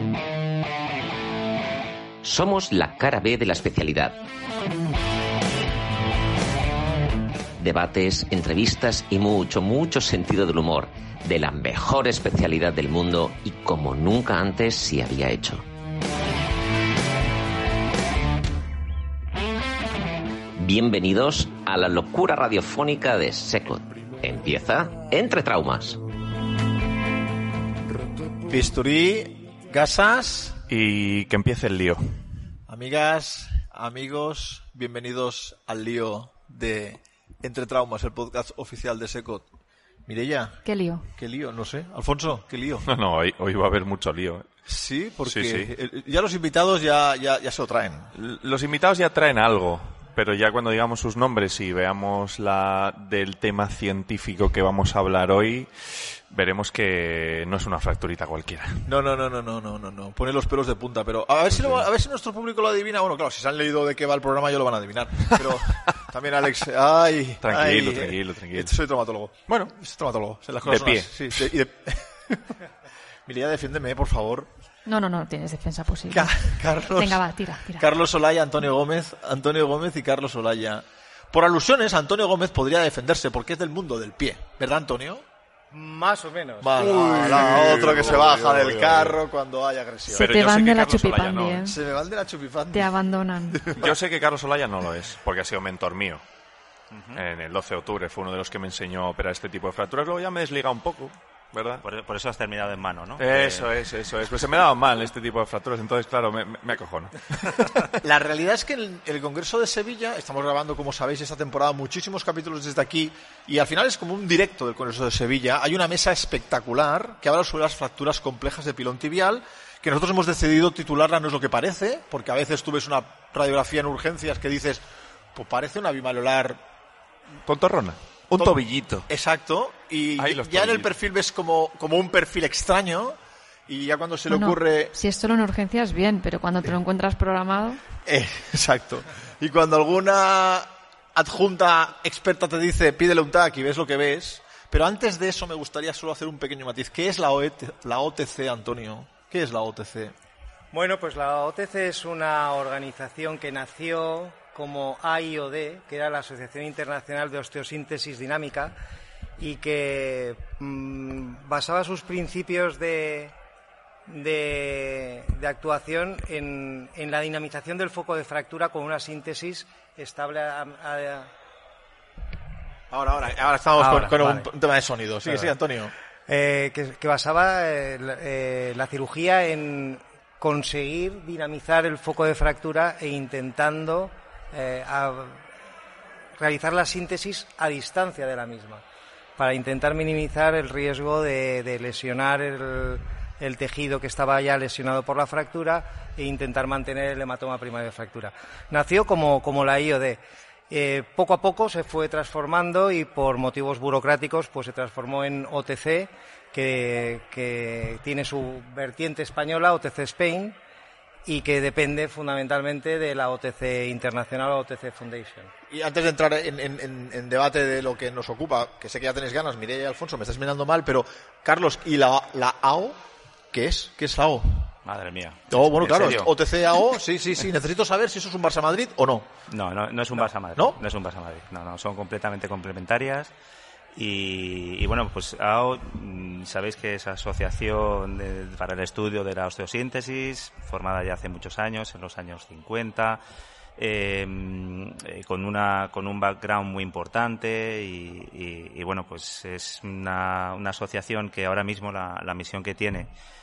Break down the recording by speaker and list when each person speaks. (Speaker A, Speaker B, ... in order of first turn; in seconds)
Speaker A: 2.2-4.2, 7.6-15.7, 20.6-26.0
Speaker B: 28.5-30.6, 32.7-39.5, 40.1-42.9, 44.6-48.1, 58.9-72.6, 73.2-74.5, 76.1-77.2, 77.8-85.2, 86.6-90.3, 91.6-92.9, 108.0-124.8, 125.3-126.6, 128.3-134.9, 138.1-150.1, 172.9-175.9, 215.7-223.0, 223.5-224.7, 225.5-229.3, 230.2-230.8
Speaker C: 30.7-32.2, 42.8-44.5, 45.2-45.7, 48.1-58.9, 61.5-61.9, 65.3-65.9, 67.4-68.8, 69.5-69.7, 70.6-71.5, 86.8-89.2, 90.1-91.7, 93.7-96.2, 97.1-101.8, 103.2-107.9, 127.4-129.1, 130.2-130.9
Speaker D: 40.6-41.1, 74.8-77.9, 90.1-91.8, 92.7-93.7, 134.3-137.8
Speaker E: 85.7-87.0, 150.7-158.8, 159.4-163.3, 164.1-171.3, 173.8-174.5, 175.2-175.5, 176.3-185.5, 186.4-188.8, 189.4-210.6, 211.2-215.5
Speaker F: 96.9-97.2, 101.8-103.7, 224.8-226.3, 229.5-233.3, 233.9-243.2, 243.8-253.1